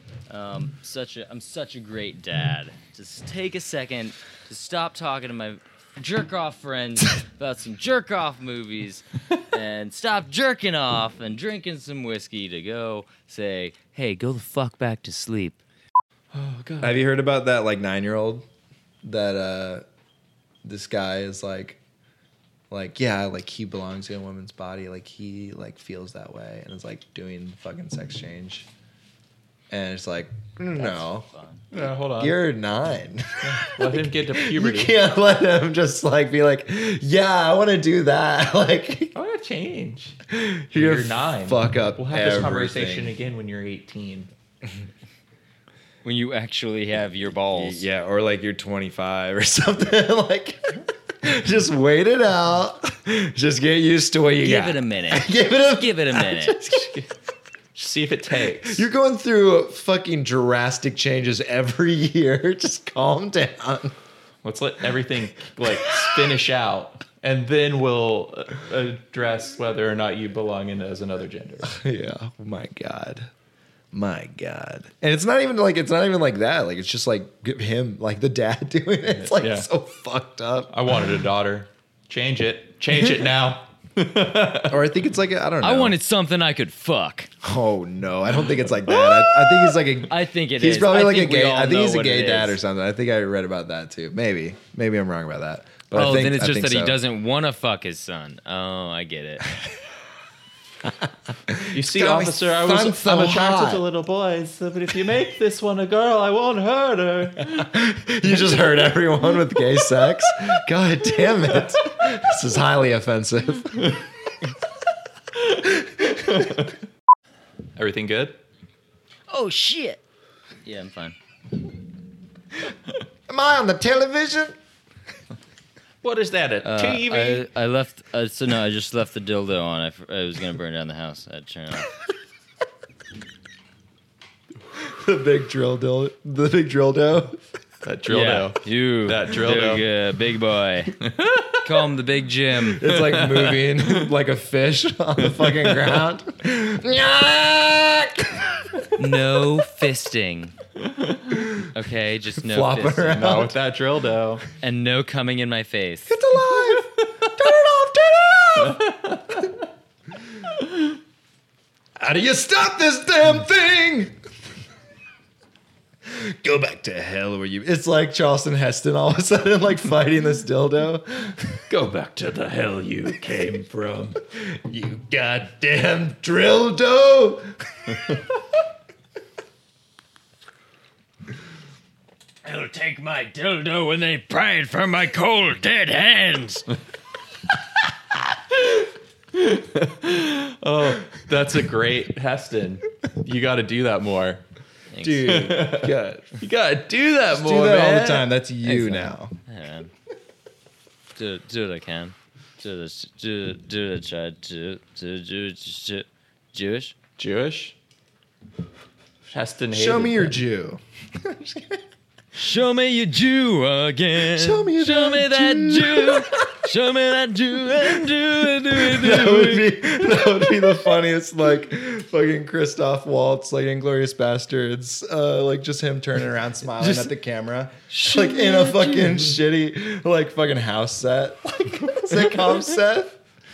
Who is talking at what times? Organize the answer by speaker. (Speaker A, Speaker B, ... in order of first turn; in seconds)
Speaker A: 0.3-15.6, 30.8-31.6, 46.0-47.9, 54.4-56.6, 85.6-87.3, 90.0-92.6, 95.9-99.5, 119.3-120.0, 120.7-121.2, 126.6-131.9, 138.1-140.9, 141.6-142.8, 149.0-150.6, 151.7-153.3, 154.6-156.1, 182.4-186.7, 194.9-195.3, 198.6-199.9, 201.2-207.0, 212.3-219.7, 226.8-227.1, 228.1-229.0
Speaker B: 16.3-17.0, 31.7-32.4, 33.4-34.9, 39.1-40.2, 40.7-44.3, 56.7-57.1, 57.8-58.9, 64.4-71.8, 79.2-79.7, 80.7-84.8, 101.7-107.7, 116.2-116.7, 117.8-118.4, 126.0-127.5, 137.8-139.8, 141.0-141.6, 142.8-144.1, 145.4-145.8, 153.1-154.4, 158.6-159.5, 171.7-174.2, 189.3-194.4, 195.2-198.3, 207.2-207.8, 209.3-210.4
Speaker C: 16.8-18.4, 19.0-19.9, 20.6-21.8, 22.7-28.7, 29.7-39.2, 40.3-43.1, 47.5-56.9, 58.6-64.0, 71.6-73.3, 73.9-80.8, 84.7-86.0, 87.4-97.0, 101.5-103.8, 107.6-113.9, 123.3-124.5, 134.7-137.4, 142.7-148.7, 152.4-153.6, 156.1-158.9, 162.0-164.2, 166.1-171.6, 174.3-177.9, 195.0-196.4, 197.3-199.3, 209.7-211.8, 214.3-216.5, 218.7-233.2